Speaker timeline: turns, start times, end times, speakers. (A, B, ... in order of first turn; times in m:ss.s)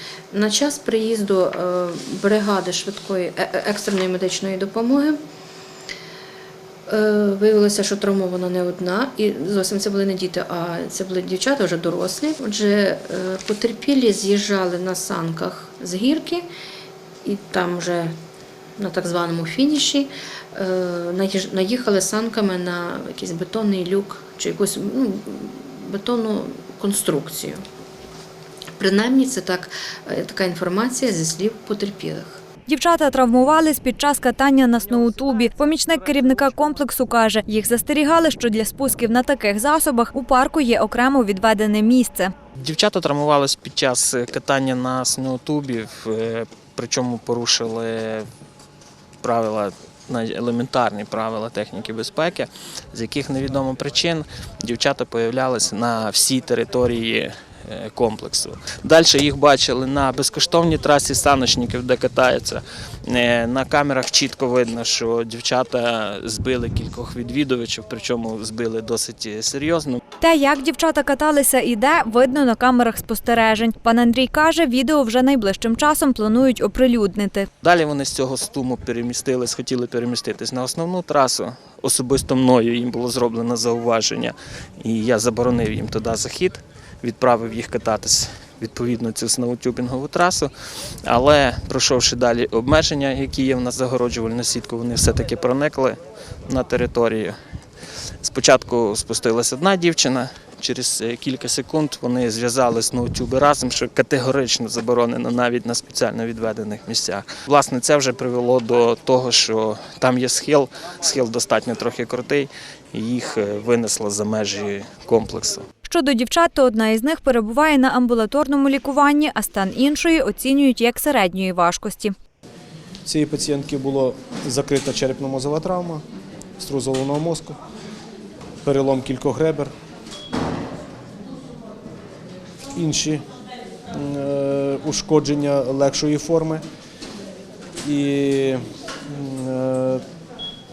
0:00.3-0:05.2 A
0:06.9-0:16.4 A
0:17.2-0:18.1 A
0:18.8-0:27.6 A
0:28.8-0:32.4 A
0:32.7-0:42.3 B
0:42.6-0:48.3 C
0:49.2-1:10.0 C
1:10.2-1:17.5 B
1:17.6-1:30.5 C
1:31.0-1:37.4 C
1:38.2-1:55.6 C
1:55.8-2:02.1 B
2:03.0-2:06.0 D
2:06.6-2:07.6 D
2:08.6-2:09.7 D
2:12.7-2:13.2 D
2:13.9-2:16.6 D
2:17.8-2:20.0 D